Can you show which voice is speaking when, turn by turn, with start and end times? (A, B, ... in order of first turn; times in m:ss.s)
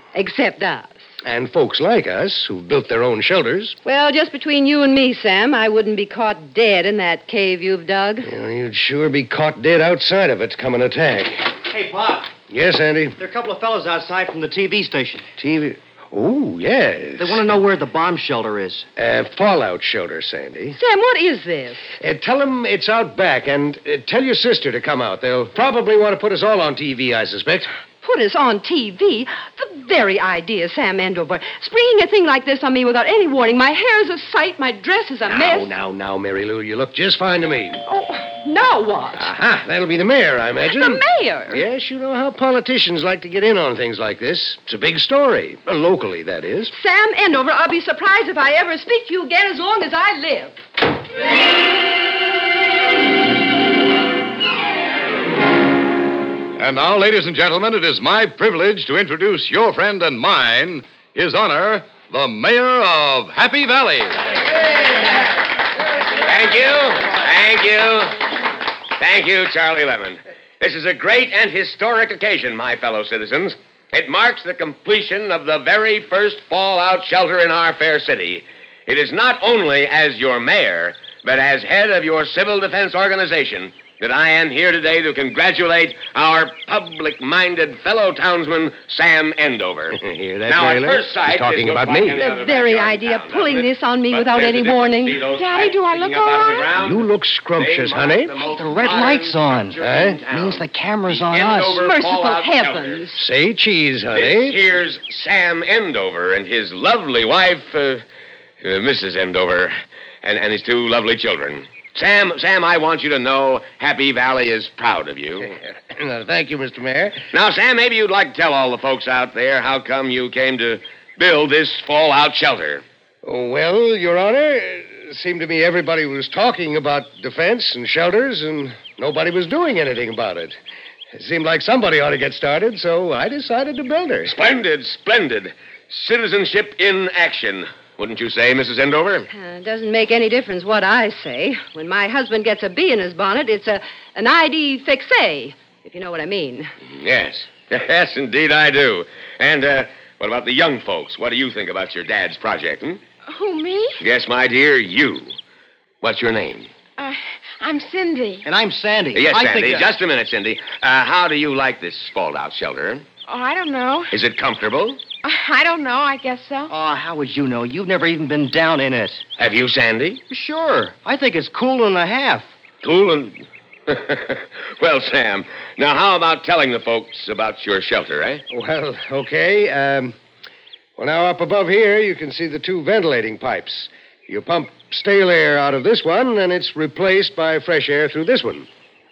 0:00.1-0:01.0 A
0:01.2-0:03.8 B
0:03.8-0:08.3 A
0:08.2-0:11.5 B
0:11.7-0:12.3 C
0:12.5-0:13.2 B
0:13.2-0:15.2 C
0:15.4-0:17.5 B
0:17.2-0:18.8 C
0:19.0-0:20.8 B
0:20.8-0:21.9 A
0:22.0-0:27.7 B
0:28.0-0:35.7 A
0:35.2-0:37.8 B
0:37.9-0:39.3 A
0:39.2-0:46.7 B
0:40.7-0:41.6 A
0:46.7-0:50.6 A
0:56.6-1:04.2 D
1:06.2-1:08.2 E
1:09.0-1:43.0 E
1:29.9-1:32.3 B
1:32.1-1:35.2 A
1:35.3-1:36.7 F
1:36.7-1:38.4 B
1:38.4-1:41.8 C
1:39.8-1:40.2 B
1:41.8-1:43.2 A
1:43.1-1:44.6 B
1:44.1-1:48.0 E
1:48.6-1:55.5 E
1:55.4-1:57.3 B
1:57.3-2:02.8 E
2:03.2-2:10.6 B
2:11.1-2:14.4 B
2:14.3-2:19.3 E
2:19.3-2:26.7 A
2:26.9-2:33.0 E
2:33.3-2:34.0 F
2:34.0-2:35.3 E
2:36.0-2:36.7 E
2:37.0-2:38.5 F
2:38.4-2:39.9 C
2:39.1-2:43.1 E
2:43.3-2:44.1 F
2:44.1-2:45.0 E
2:45.2-2:46.7 F
2:46.7-2:49.2 C
2:49.4-2:50.2 E
2:50.3-2:52.5 C
2:52.8-2:58.4 E
2:58.5-3:00.1 B
3:01.0-3:08.7 B